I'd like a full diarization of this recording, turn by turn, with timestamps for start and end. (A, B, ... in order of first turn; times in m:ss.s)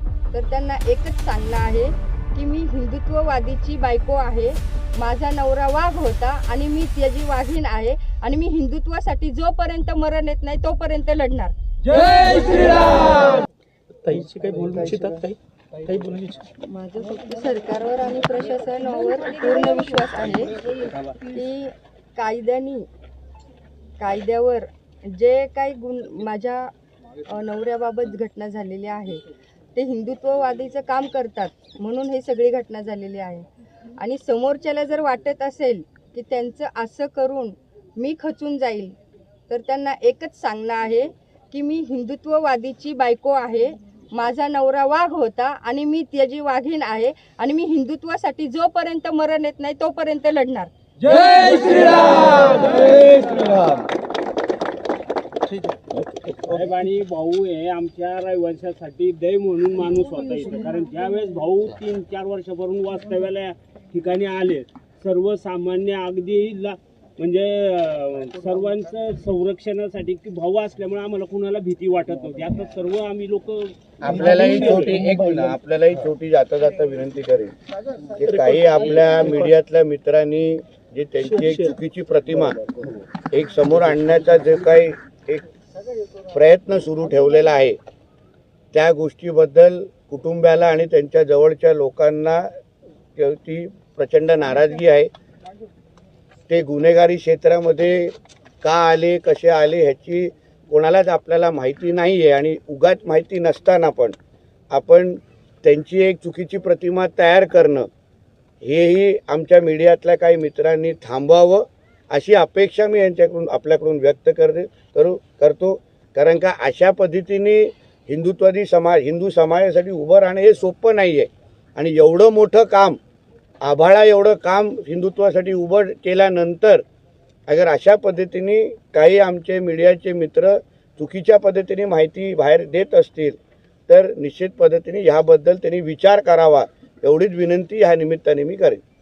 0:00.3-0:13.4 A
0:12.0-0:12.7 B
0:14.0-0:16.5 C
0:16.6-0:20.7 A
0:20.6-0:21.2 B
0:21.2-0:22.9 A
0:24.0-0:39.0 A
0:39.5-0:50.7 A
0:51.0-0:53.8 B
0:56.5-1:14.9 B
1:14.0-1:17.6 D
1:14.9-1:15.3 C
1:18.2-1:22.7 D
1:18.2-1:19.5 C
1:21.2-1:21.8 C
1:23.3-1:25.5 D
1:26.2-1:27.8 D
1:28.7-1:32.5 D
1:33.2-1:35.1 D
1:36.5-1:44.2 D
1:44.7-1:47.9 D
1:48.6-2:03.0 D
2:03.6-2:06.8 D
2:07.5-2:13.4 D
2:13.9-2:18.8 D